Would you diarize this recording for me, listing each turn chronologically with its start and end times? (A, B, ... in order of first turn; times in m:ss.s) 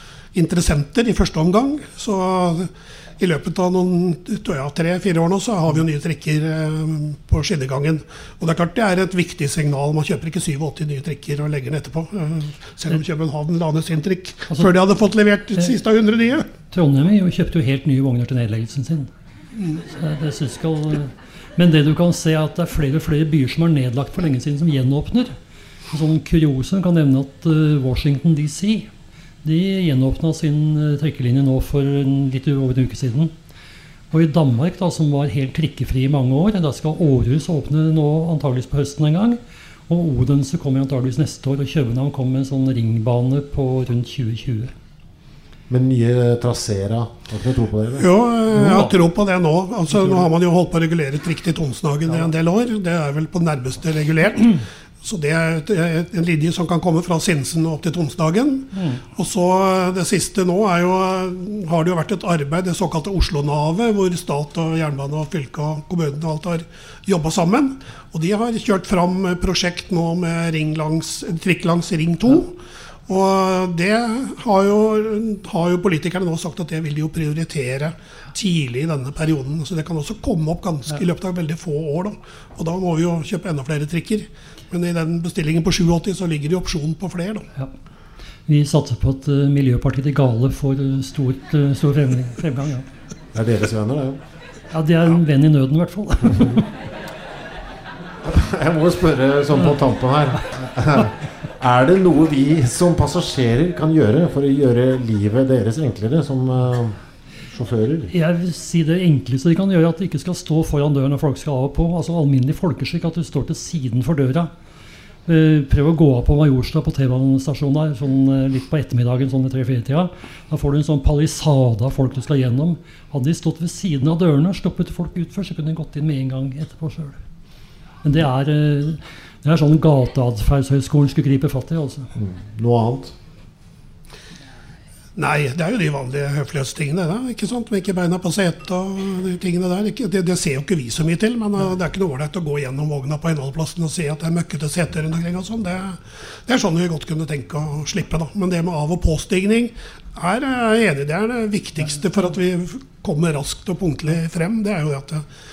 0:00.3-0:16.5 A
0:16.7-0:19.1 B
0:19.6-0:19.8 A
0:19.9-0:25.3 B
0:25.9-0:28.9 B
0:29.4-0:33.3 B
0:34.1-0:44.7 B
0:45.7-0:48.1 C
0:48.0-1:12.5 A
0:48.6-0:48.9 B
0:49.9-0:50.2 C
0:58.7-0:59.0 B
1:13.1-1:27.5 A
1:28.5-1:32.8 B
1:33.3-1:34.2 C
1:34.7-1:36.7 B
1:38.2-1:48.1 C
1:48.1-1:54.5 B
1:55.2-2:07.2 B
2:08.0-2:12.1 B
2:12.2-2:13.1 C
2:15.2-2:35.2 A